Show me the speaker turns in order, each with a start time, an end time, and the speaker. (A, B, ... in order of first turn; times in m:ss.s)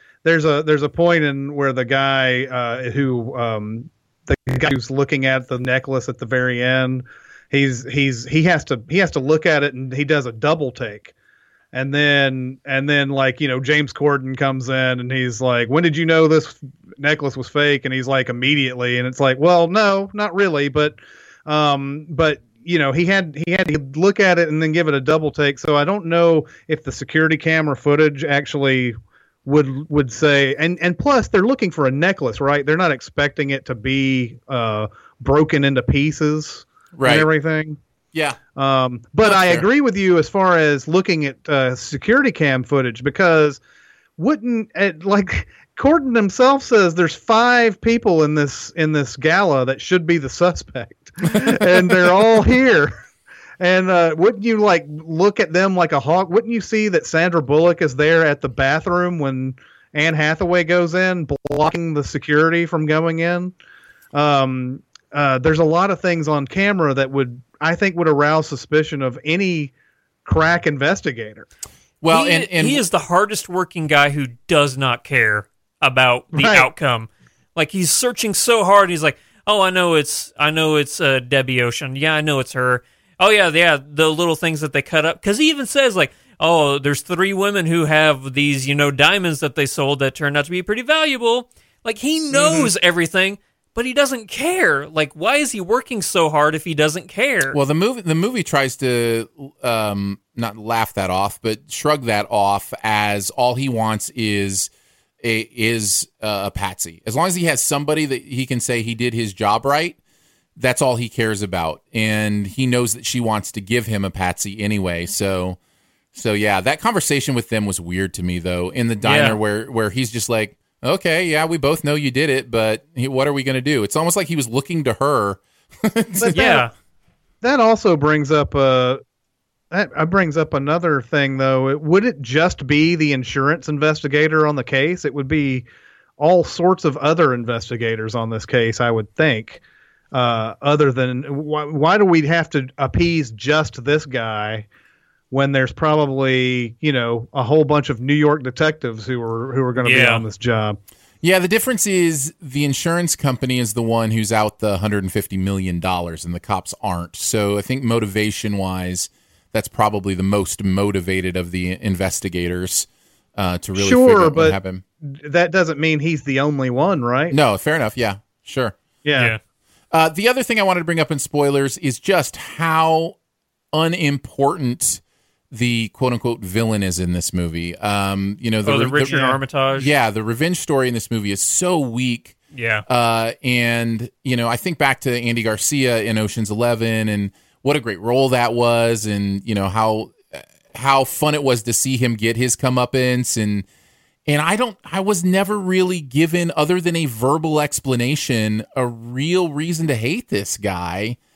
0:00.2-0:11.1 A
0:11.7-0:37.8 A
0:37.0-0:37.3 B
0:38.1-0:38.4 B
0:38.6-0:43.6 A
0:39.2-0:39.7 B
0:44.2-0:52.9 A
0:53.6-1:03.5 A
1:04.1-1:09.7 A
1:10.2-1:11.5 A
1:12.0-1:12.8 B
1:12.1-1:37.6 C
1:16.4-1:16.7 A
1:32.3-1:32.7 A
1:37.5-1:50.0 B
1:50.6-1:55.6 B
1:56.2-2:06.4 B
1:59.0-1:59.4 C
2:06.2-2:06.6 A
2:06.3-2:06.7 C
2:07.4-2:09.0 A
2:09.7-2:15.7 A
2:16.2-2:19.6 A
2:20.1-2:24.7 A
2:25.3-2:30.8 A
2:29.8-2:30.2 C
2:31.2-2:44.8 B
2:43.8-2:47.4 A
2:47.3-2:48.8 B
2:49.0-2:49.3 A
2:49.9-2:53.2 B
2:53.7-2:59.2 B
2:58.7-2:59.9 C
2:59.1-2:59.4 A
2:59.8-3:13.7 B
3:02.5-3:02.9 C
3:14.3-3:21.2 B